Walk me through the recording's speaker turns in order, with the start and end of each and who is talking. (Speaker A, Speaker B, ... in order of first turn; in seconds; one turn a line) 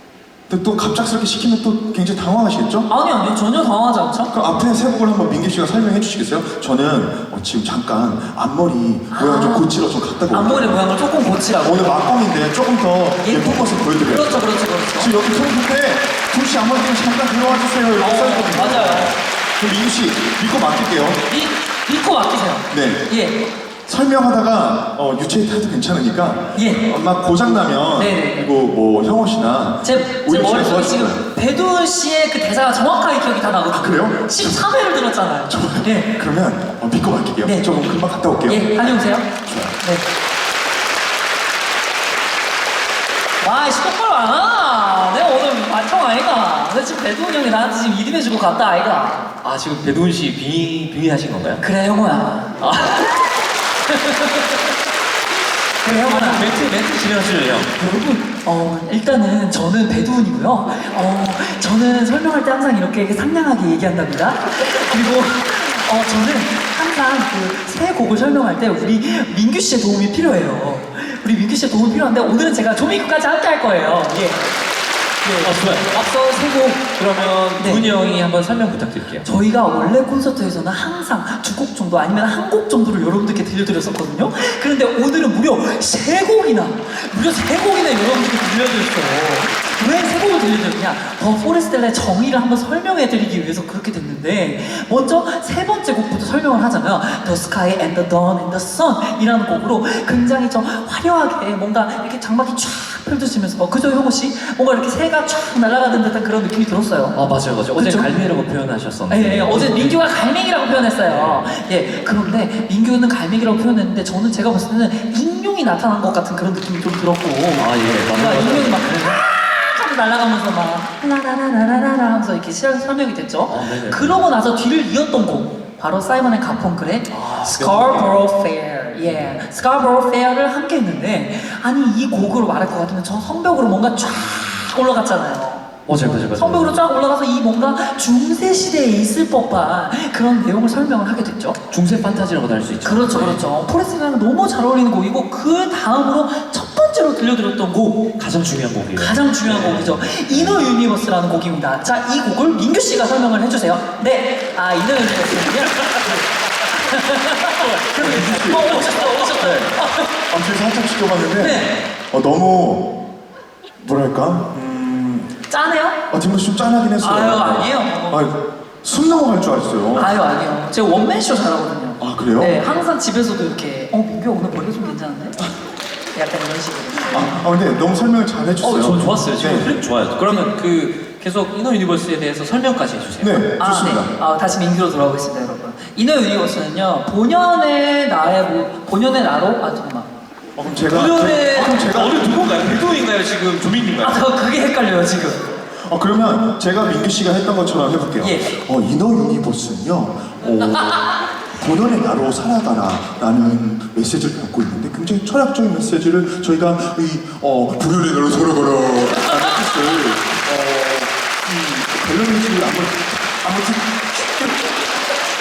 Speaker A: 0.5-2.9
Speaker B: 2.9-4.3
Speaker A: 4.3-10.8
Speaker B: 9.1-9.7
Speaker B: 10.3-12.1
Speaker A: 11.6-21.2
Speaker B: 13.2-15.1
Speaker B: 18.0-19.1
Speaker B: 21.3-23.4
Speaker A: 22.7-23.1
Speaker A: 23.9-31.2
Speaker B: 26.6-26.9
Speaker B: 28.0-28.5
Speaker B: 29.8-36.1
Speaker A: 33.7-34.7
Speaker A: 35.5-38.8
Speaker B: 37.4-37.8
Speaker B: 38.5-40.0
Speaker A: 39.5-39.8
Speaker B: 43.4-49.2
Speaker C: 49.4-51.6
Speaker B: 51.6-52.6
Speaker C: 52.6-53.3
Speaker C: 53.9-54.4
Speaker B: 55.8-56.6
Speaker C: 55.9-57.8
Speaker B: 57.8-74.4
Speaker B: 75.2-75.7
Speaker C: 75.4-79.3
Speaker B: 77.6-77.9
Speaker B: 79.2-107.2
Speaker C: 107.1-110.0
Speaker B: 107.8-108.1
Speaker B: 109.1-135.7
Speaker C: 111.1-111.5
Speaker C: 117.6-119.2
Speaker C: 123.5-124.2
Speaker C: 127.1-128.2
Speaker C: 129.0-129.3
Speaker C: 134.4-134.6
Speaker C: 135.9-136.8
Speaker B: 136.3-141.6
Speaker C: 141.7-143.4
Speaker B: 142.8-148.1
Speaker C: 148.2-150.7
Speaker B: 148.9-156.1
Speaker C: 155.2-156.2
Speaker B: 156.7-160.1
Speaker C: 157.6-159.6
Speaker A: 158.0-158.8
Speaker A: 159.4-159.7
Speaker A: 160.3-162.9
Speaker B: 161.4-161.8
Speaker A: 163.8-165.3
Speaker B: 165.5-166.0
Speaker A: 166.1-170.1
Speaker B: 167.0-168.2
Speaker B: 169.9-175.4
Speaker A: 172.0-172.6
Speaker B: 176.1-177.4
Speaker A: 177.1-179.7
Speaker C: 178.6-183.4
Speaker B: 180.2-180.5
Speaker A: 183.2-184.1
Speaker B: 183.6-190.1
Speaker A: 190.6-192.2
Speaker C: 190.9-194.2
Speaker B: 194.0-195.4
Speaker A: 195.8-214.8
Speaker B: 198.2-198.6
Speaker B: 209.2-209.6